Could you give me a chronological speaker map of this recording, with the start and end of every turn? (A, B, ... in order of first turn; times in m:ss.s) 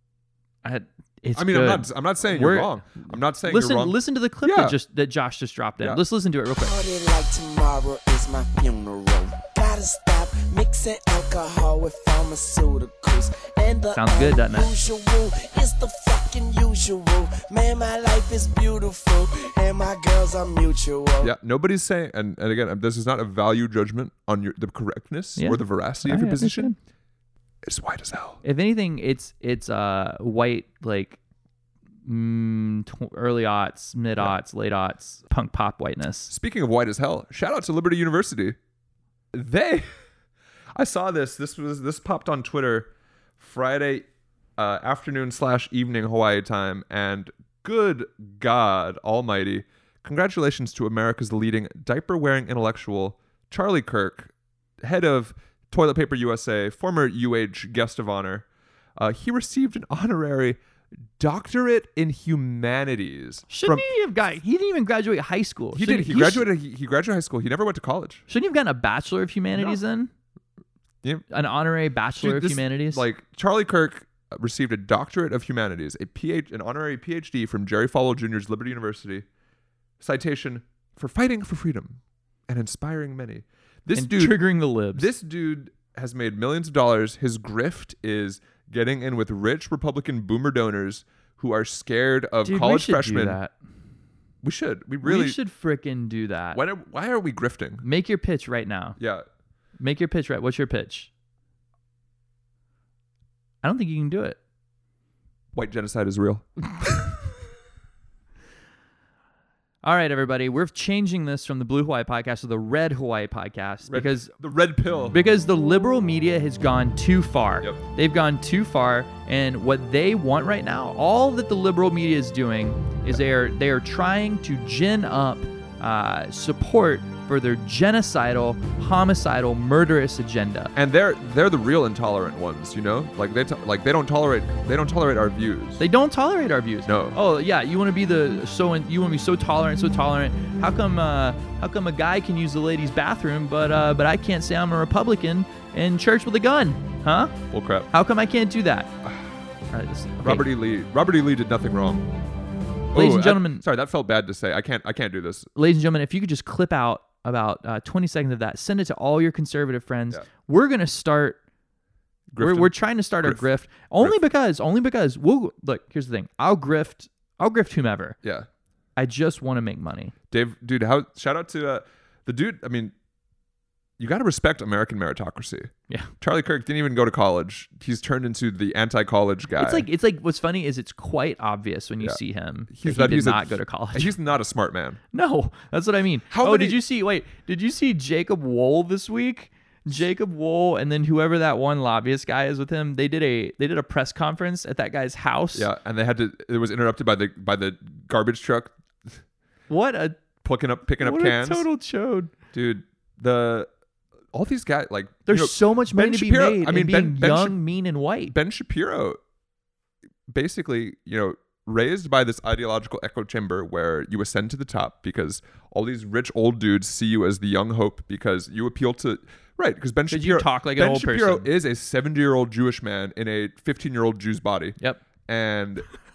0:00.6-0:06.7 A
0:01.3-0:04.8 B
0:06.6-0:21.3 C
0:13.9-0:14.7 A
0:21.2-0:26.7 B
0:25.4-0:26.8 A
0:27.6-0:28.4 B
0:28.4-0:31.2 A
0:32.0-0:36.3 A
0:36.3-0:38.6 B
0:39.3-0:39.8 B
0:40.7-0:44.0 B
0:44.6-1:00.6 B
1:01.2-1:03.9 B
1:03.5-1:06.5 A
1:05.7-1:08.2 B
1:08.3-1:10.1 A
1:11.3-1:13.0 A
1:12.2-1:19.2 B
1:20.0-1:24.4 B
1:23.9-1:25.1 A
1:24.9-1:33.4 B
1:32.4-1:33.5 A
1:34.4-1:35.4 B
1:35.0-1:36.6 A
1:36.5-1:37.8 B
1:37.8-1:39.0 A
1:39.0-1:39.2 B
1:39.8-1:41.1 A
1:43.6-1:44.4 A
1:45.5-1:46.4 B
1:49.8-1:54.3 A
1:53.9-1:55.2 B
1:55.1-2:10.7 A
2:10.7-2:15.8 B
2:15.8-2:27.4 A
2:16.8-2:17.2 B
2:27.5-2:27.9 B
2:27.9-2:28.9 A
2:29.7-2:30.5 A
2:30.2-2:32.1 B
2:32.9-2:35.5 B
2:32.9-2:33.6 A
2:35.6-2:41.4 A
2:42.3-2:43.5 B
2:42.4-2:48.2 A
2:48.2-2:48.5 B
2:49.0-2:50.1 A
2:50.3-2:52.9 B
2:54.0-2:59.9 B
2:59.6-3:04.1 A
3:02.7-3:05.0 B
3:05.1-3:15.7 A
3:06.3-3:06.8 B
3:15.5-3:19.2 B
3:19.7-3:20.2 A
3:20.4-3:21.6 B
3:21.0-3:22.3 A
3:22.5-3:23.7 B
3:24.3-3:27.6 B
3:25.3-3:28.3 A
3:28.3-3:29.2 B
3:30.3-3:45.8 B
3:40.1-3:41.5 A